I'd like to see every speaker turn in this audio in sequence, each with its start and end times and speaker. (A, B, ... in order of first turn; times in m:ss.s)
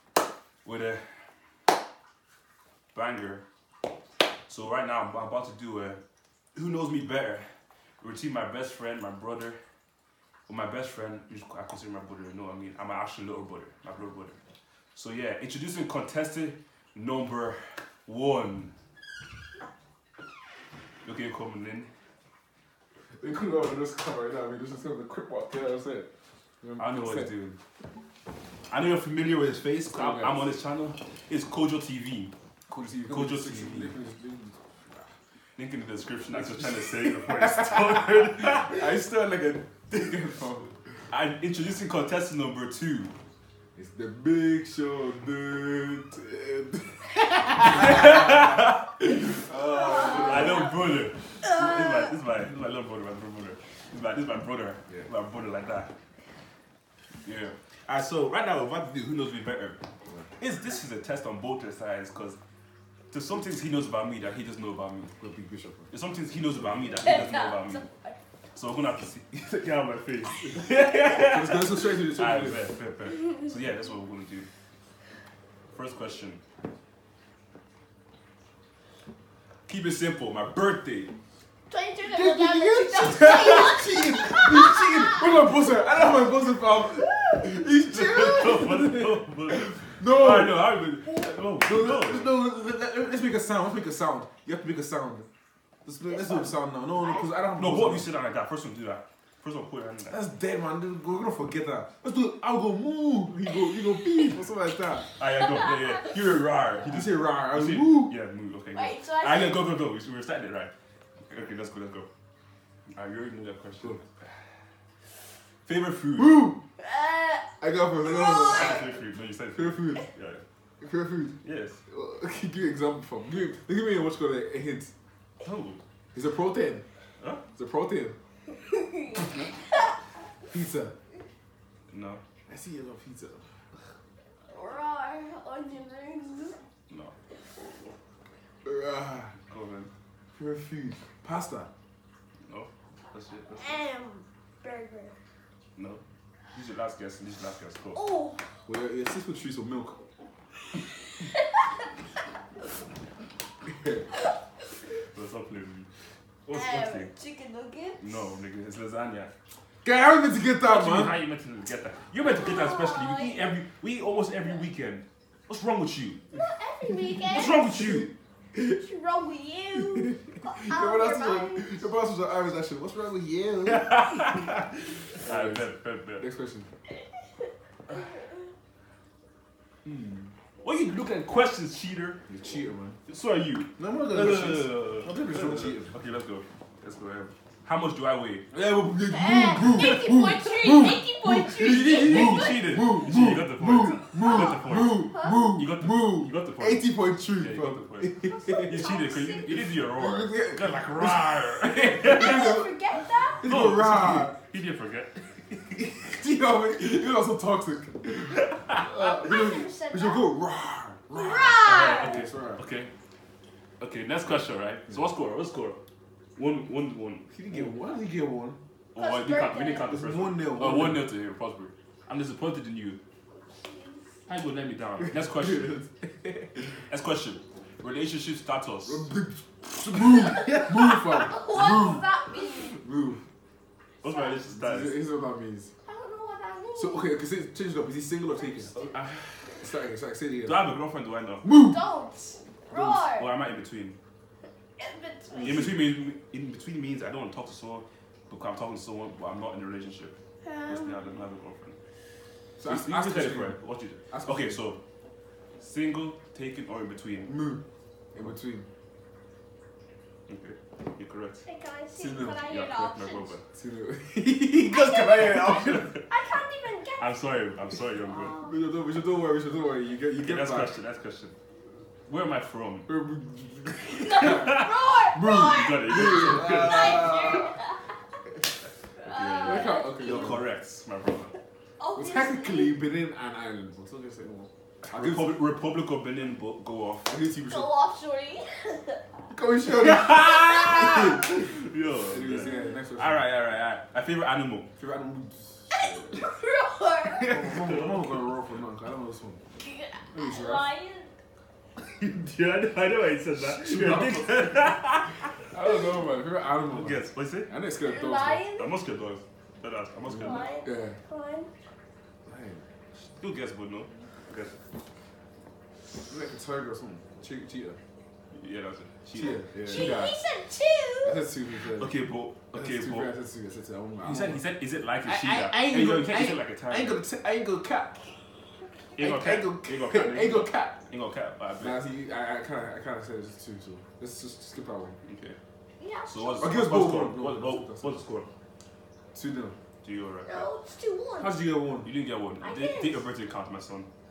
0:00.6-0:01.3 A
0:02.9-0:03.4 A
0:04.5-0:06.0 A
0:06.5-0:07.5 A
0:08.0-0:09.6 A
0:10.5-0:14.4 A
0:14.9-0:18.7 A
0:21.0-0:21.9 A
0:23.2-0:26.1 B
0:26.6-0:27.6 B
0:26.8-0:27.5 A
0:28.7-0:32.3 A
0:29.9-0:30.4 B
0:32.7-0:35.0 B
0:33.0-0:33.9 A
0:35.6-0:38.8 A
0:36.3-0:41.0 B
0:41.1-0:43.1 A
0:43.7-0:50.7 B
0:47.5-0:55.9 A
0:49.6-0:50.8 C
0:51.4-0:52.1 C
0:57.2-0:59.8 A
1:00.4-1:02.4 A
1:03.1-1:05.2 A
1:05.2-1:05.9 B
1:05.9-1:07.8 A
1:06.9-1:08.2 C
1:08.5-1:14.5 A
1:11.2-1:12.6 B
1:15.7-1:16.4 A
1:19.6-1:21.1 A
1:21.7-1:25.6 C
1:22.0-1:30.8 B
1:26.9-1:27.5 C
1:27.9-1:32.4 A
1:31.6-1:35.3 B
1:35.8-1:38.1 B
1:37.5-1:40.2 A
1:40.1-1:45.1 B
1:45.2-1:50.7 A
1:45.4-1:46.1 C
1:46.8-1:48.1 B
1:48.7-1:49.6 C
1:51.3-1:52.1 A
1:52.9-1:54.3 A
1:55.6-1:56.5 A
1:56.2-1:56.6 B
1:56.8-1:58.9 C
1:57.6-1:58.9 B
1:58.3-2:00.4 A
1:59.5-2:00.1 B
2:00.8-2:04.9 B
2:01.4-2:01.8 A
2:05.4-2:05.8 A
2:06.1-2:06.8 B
2:07.5-2:08.2 B
2:08.5-2:10.0 C
2:10.5-2:10.9 B
2:11.9-2:12.2 A
2:12.5-2:13.6 B
2:14.5-2:16.6 C
2:16.9-2:17.1 A
2:18.6-2:19.3 B
2:19.4-2:19.9 A
2:20.3-2:21.7 B
2:22.5-2:23.8 A
2:23.6-2:25.2 C
2:25.8-2:28.0 A
2:27.9-2:28.6 C
2:28.6-2:30.0 B
2:30.8-2:31.7 C
2:33.6-2:34.0 B
2:35.0-2:35.9 A
2:36.4-2:37.1 A
2:36.5-2:38.2 C
2:38.0-2:39.3 A
2:39.8-2:41.2 B
2:40.6-2:46.2 A
2:42.2-2:43.6 C
2:46.3-2:47.6 C
2:46.8-2:48.8 B
2:47.3-2:48.1 A
2:48.5-2:51.8 C
2:49.8-2:54.3 B
2:53.6-2:56.2 A
2:55.2-2:56.7 B
2:57.9-2:58.4 C
2:59.8-3:00.3 B
3:00.6-3:02.2 A
3:02.3-3:03.0 B
3:03.1-3:08.4 A
3:03.8-3:06.0 B
3:08.5-3:19.0 B
3:09.1-3:12.8 C
3:11.6-3:22.6 A
3:14.3-3:15.5 C
3:18.2-3:19.7 C
3:19.9-3:24.3 B
3:22.1-3:23.4 C
3:23.4-3:25.8 A
3:25.7-3:32.6 B
3:28.4-3:28.9 A
3:29.0-3:30.3 C
3:31.1-3:32.2 C
3:31.6-3:32.9 A
3:33.8-3:35.8 A
3:36.4-3:37.8 A
3:37.3-3:38.6 B
3:38.9-3:43.0 A
3:39.0-3:39.9 C
3:39.9-3:41.0 B
3:43.5-3:44.1 C
3:44.3-3:45.8 A
3:45.0-3:46.7 B
3:46.7-3:49.1 A
3:48.8-3:53.2 B
3:49.9-3:51.2 A
3:51.1-3:52.8 C
3:54.0-3:55.0 A
3:54.0-3:54.4 C
3:54.5-3:55.7 B
3:55.8-3:57.1 C
3:56.7-3:58.7 B
3:58.4-3:58.9 C
3:58.7-3:59.7 A
3:59.6-4:00.6 B
4:00.4-4:01.4 A
4:01.4-4:01.8 B
4:01.5-4:03.4 C
4:02.7-4:04.0 A
4:04.8-4:05.7 C
4:05.3-4:05.8 B
4:05.4-4:11.8 A
4:10.4-4:11.0 C
4:12.6-4:13.6 B
4:12.6-4:14.8 A
4:14.1-4:14.6 B
4:15.6-4:17.4 A
4:17.3-4:17.6 B
4:18.1-4:18.7 B
4:20.3-4:21.4 A
4:21.4-4:23.4 C
4:21.9-4:22.4 B
4:22.4-4:23.4 A
4:23.5-4:25.9 B
4:24.6-4:27.2 C
4:25.2-4:26.0 A
4:27.0-4:28.4 A
4:27.9-4:28.5 C
4:28.3-4:30.7 B
4:30.2-4:31.4 A
4:32.1-4:32.9 A
4:32.9-4:37.4 B
4:34.0-4:38.0 C
4:34.0-4:37.5 A
4:39.0-4:40.4 C
4:39.0-4:41.4 A
4:39.4-4:40.4 B
4:41.8-4:42.8 C
4:41.9-4:45.4 B
4:44.8-4:47.1 A
4:47.0-4:47.7 B
4:47.4-4:49.0 C
4:49.3-4:53.3 B
4:49.7-4:54.7 A
4:50.5-4:51.0 C
4:52.2-4:52.8 C
4:54.8-4:56.2 B
4:55.7-4:57.3 C
4:57.1-4:58.6 A
4:57.3-4:59.4 B
4:59.6-5:01.1 C
5:00.1-5:00.7 B
5:01.8-5:05.5 A
5:03.4-5:08.4 B
5:06.7-5:07.5 A
5:07.8-5:08.8 C
5:08.6-5:10.5 A
5:10.0-5:11.0 B
5:10.1-5:11.5 C
5:12.2-5:12.6 B
5:12.9-5:14.6 A
5:16.1-5:17.8 B
5:18.3-5:20.0 A
5:19.1-5:20.2 B
5:19.6-5:21.2 C
5:21.0-5:22.0 B
5:21.8-5:23.1 A
5:22.5-5:24.4 B
5:24.0-5:27.0 A
5:25.0-5:28.1 B
5:29.0-5:30.8 B
5:29.0-5:31.8 A
5:31.6-5:35.0 B
5:35.0-5:35.4 A
5:35.8-5:36.6 C
5:36.0-5:38.3 A
5:36.4-5:38.0 B
5:39.1-5:39.6 B
5:39.8-5:40.5 A
5:40.2-5:41.4 C
5:41.2-5:41.9 B
5:41.8-5:43.9 A
5:42.4-5:43.0 C